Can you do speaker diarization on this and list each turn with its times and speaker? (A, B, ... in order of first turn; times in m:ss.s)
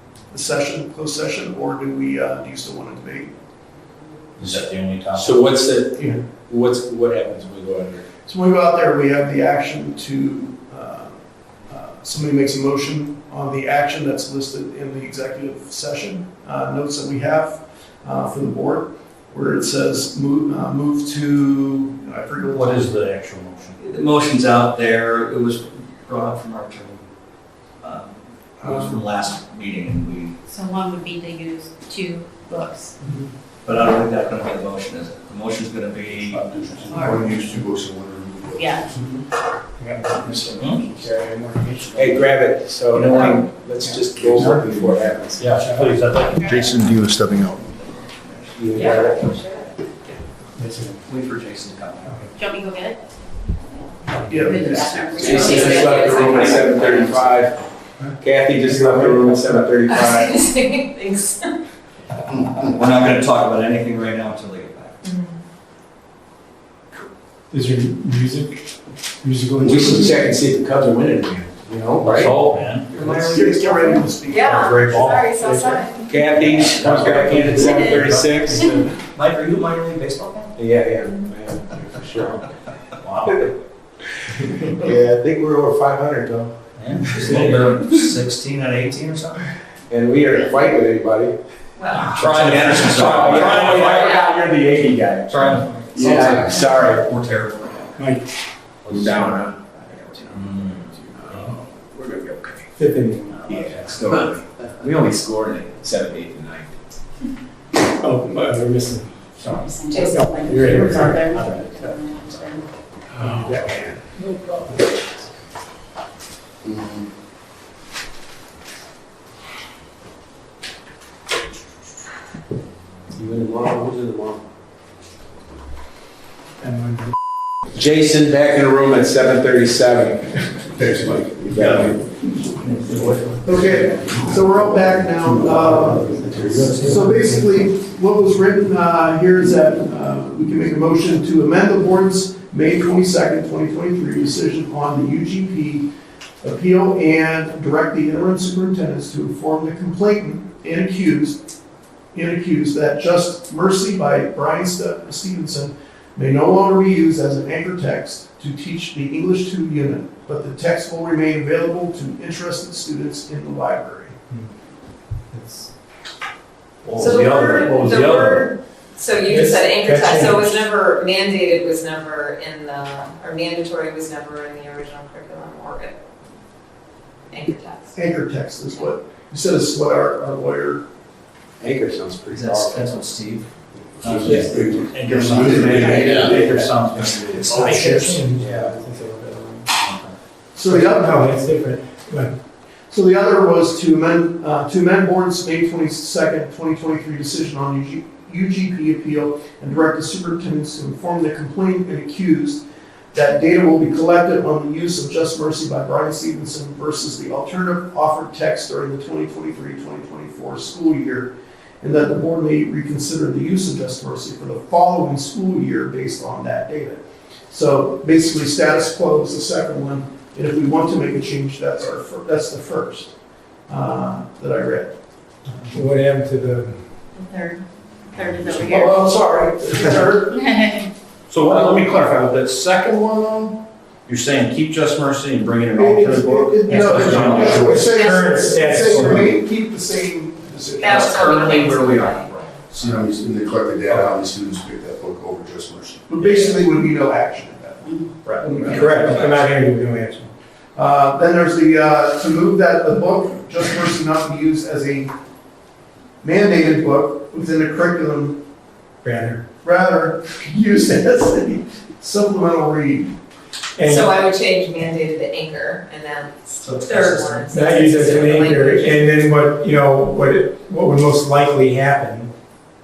0:00.3-0:03.3 A
0:04.4-0:05.4 B
0:05.2-0:08.0 C
0:08.3-0:11.2 A
0:11.7-0:23.0 A
0:22.5-0:23.8 B
0:23.8-0:27.0 D
0:27.8-0:30.3 D
0:30.5-0:32.9 E
0:33.6-0:36.4 D
0:36.3-0:38.9 F
0:36.9-0:37.3 E
0:38.5-0:38.9 E
0:39.8-0:42.3 G
0:42.0-0:45.5 C
0:43.0-0:43.5 H
0:44.0-0:45.0 F
0:45.4-0:46.4 B
0:45.5-0:46.0 G
0:46.4-0:46.8 E
0:46.4-0:47.7 F
0:47.9-0:48.5 D
0:48.6-0:49.2 C
0:48.7-0:50.1 H
0:50.6-0:51.0 G
0:51.1-0:52.3 D
0:52.0-0:52.3 G
0:52.4-0:53.1 E
0:54.3-0:55.7 A
0:54.3-0:56.3 E
0:55.2-0:57.2 H
0:55.2-0:57.5 C
0:56.2-0:56.5 F
0:56.2-0:57.5 D
0:58.0-0:59.7 G
0:58.2-1:00.4 C
0:59.9-1:01.6 H
1:02.6-1:05.0 D
1:05.0-1:05.4 H
1:07.5-1:08.6 G
1:09.2-1:10.4 G
1:09.6-1:12.4 C
1:12.1-1:12.9 B
1:12.9-1:13.4 D
1:13.1-1:14.6 A
1:13.7-1:16.1 H
1:14.6-1:15.3 B
1:15.5-1:15.8 G
1:16.1-1:18.9 C
1:16.3-1:18.4 B
1:16.6-1:18.1 D
1:17.6-1:18.8 E
1:19.1-1:20.5 D
1:20.6-1:22.4 C
1:23.0-1:23.3 D
1:24.7-1:26.5 C
1:26.8-1:29.4 D
1:29.9-1:31.4 C
1:31.8-1:33.2 H
1:32.0-1:34.1 D
1:32.2-1:33.9 C
1:33.2-1:35.3 G
1:33.9-1:34.3 H
1:35.3-1:38.0 D
1:36.0-1:36.5 F
1:36.0-1:37.0 C
1:38.0-1:38.3 G
1:38.9-1:42.6 C
1:40.4-1:40.7 D
1:42.8-1:43.8 G
1:43.4-1:46.7 C
1:47.8-1:51.4 G
1:49.5-1:52.7 E
1:49.9-1:50.3 H
1:53.2-1:54.0 G
1:54.3-1:54.6 C
2:03.1-2:04.4 C
2:06.6-2:07.1 G
2:07.7-2:10.4 C
2:10.8-2:12.0 F
2:11.4-2:11.9 C
2:12.6-2:13.2 D
2:12.9-2:13.9 C
2:13.4-2:25.9 A
2:16.4-2:16.9 F
2:26.4-2:31.4 A
2:32.1-2:44.2 A
2:45.3-2:45.7 G
2:46.9-2:47.7 D
2:46.9-2:48.5 B
2:47.0-2:56.0 H
2:49.2-2:50.7 G
2:57.3-2:58.0 H
2:58.0-3:00.8 A
3:01.6-3:03.0 C
3:02.3-3:03.5 D
3:04.0-3:06.4 F
3:04.0-3:07.6 D
3:04.0-3:05.9 B
3:04.3-3:04.6 G
3:05.6-3:06.6 G
3:06.2-3:06.7 C
3:06.6-3:07.2 B
3:07.2-3:09.7 G
3:07.5-3:07.8 C
3:07.6-3:08.1 F
3:08.4-3:08.8 C
3:09.8-3:10.1 D
3:10.6-3:11.3 A
3:10.6-3:12.3 G
3:12.9-3:22.6 A
3:23.1-3:31.3 A
3:31.8-3:43.1 A
3:43.7-3:44.9 A
3:45.6-3:46.9 G
3:47.2-3:49.1 E
3:48.4-3:50.4 A
3:50.2-3:50.9 E
3:51.3-3:57.7 B
3:55.8-4:01.4 A
3:56.0-3:56.9 D
3:56.9-3:59.3 G
3:57.9-3:58.4 H
4:00.8-4:02.6 H
4:00.9-4:03.0 D
4:02.8-4:06.0 F
4:06.1-4:09.3 A
4:06.2-4:06.5 D
4:08.2-4:09.4 D
4:08.5-4:10.3 G
4:10.8-4:15.1 A
4:16.2-4:18.4 A
4:19.0-4:19.4 G
4:19.6-4:23.1 A
4:23.8-4:24.1 G
4:23.8-4:29.1 H
4:26.6-4:27.4 D
4:27.5-4:32.3 G